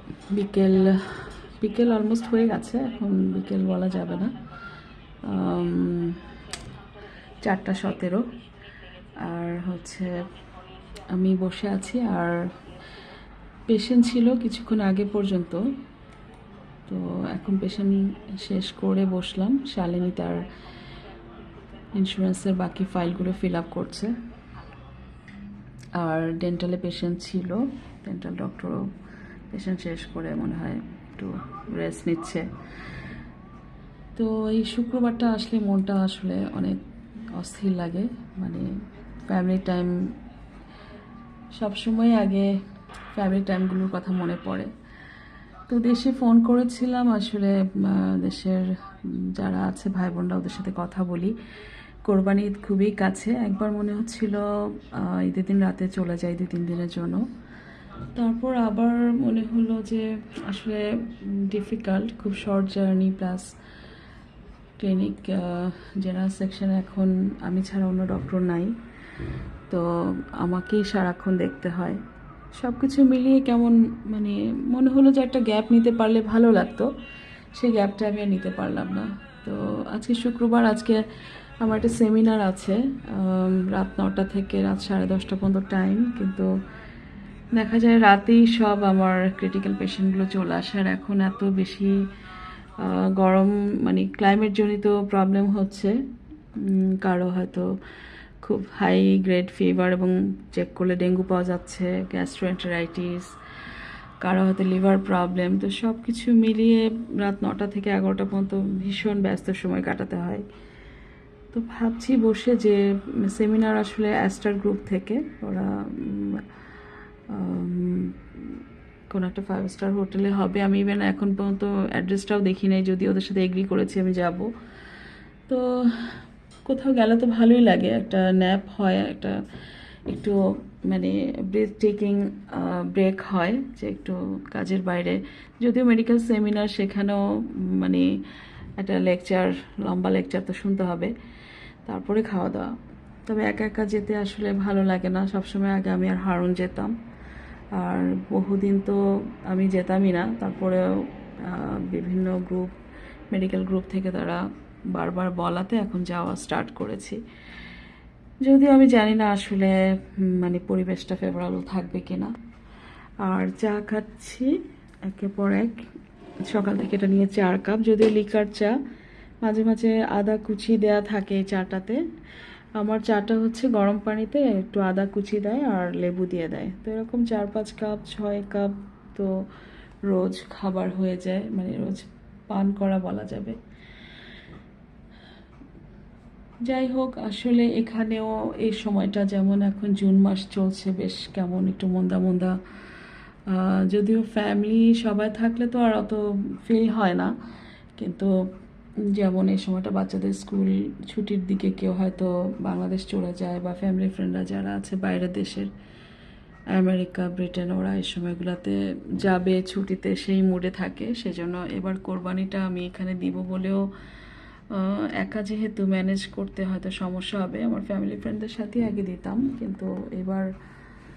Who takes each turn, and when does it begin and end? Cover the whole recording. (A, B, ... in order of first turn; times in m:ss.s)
0:00.3-0:04.4 A
0:05.2-0:06.3 A
0:07.4-0:08.3 A
0:09.2-0:10.3 A
0:11.1-0:12.5 A
0:13.7-0:15.6 A
0:16.9-0:20.5 A
0:21.9-0:24.1 A
0:26.0-0:28.9 A
0:29.5-0:32.5 A
0:34.2-0:36.8 A
0:37.4-0:38.7 A
0:39.3-0:39.9 A
0:41.5-0:42.5 A
0:43.1-0:44.7 A
0:45.7-0:51.3 A
0:52.1-0:57.2 A
0:58.1-1:03.5 A
1:04.8-1:08.7 A
1:09.7-1:12.0 A
1:12.5-1:16.9 A
1:17.5-1:21.0 A
1:21.6-1:26.5 A
1:27.6-1:32.0 A
1:32.8-1:35.9 A
1:36.6-1:37.7 A
1:38.4-1:43.3 A
1:44.2-1:50.4 A
1:51.5-1:56.4 A
1:57.3-2:04.5 A
2:05.5-2:09.4 A
2:10.1-2:18.1 A
2:18.8-2:21.1 A
2:21.8-2:22.7 A
2:23.2-2:26.9 A
2:27.8-2:30.8 A
2:31.4-2:32.7 A
2:33.3-2:34.4 A
2:34.9-2:37.2 A
2:38.4-2:42.3 A
2:43.2-2:44.5 A
2:45.1-2:45.8 A
2:46.5-2:48.7 A
2:49.4-2:52.0 A
2:52.8-2:59.3 A
3:00.1-3:03.6 A
3:06.6-3:12.6 A
3:13.5-3:17.3 A
3:18.0-3:18.3 A
3:19.1-3:25.7 A
3:26.7-3:33.8 A
3:34.7-3:40.4 A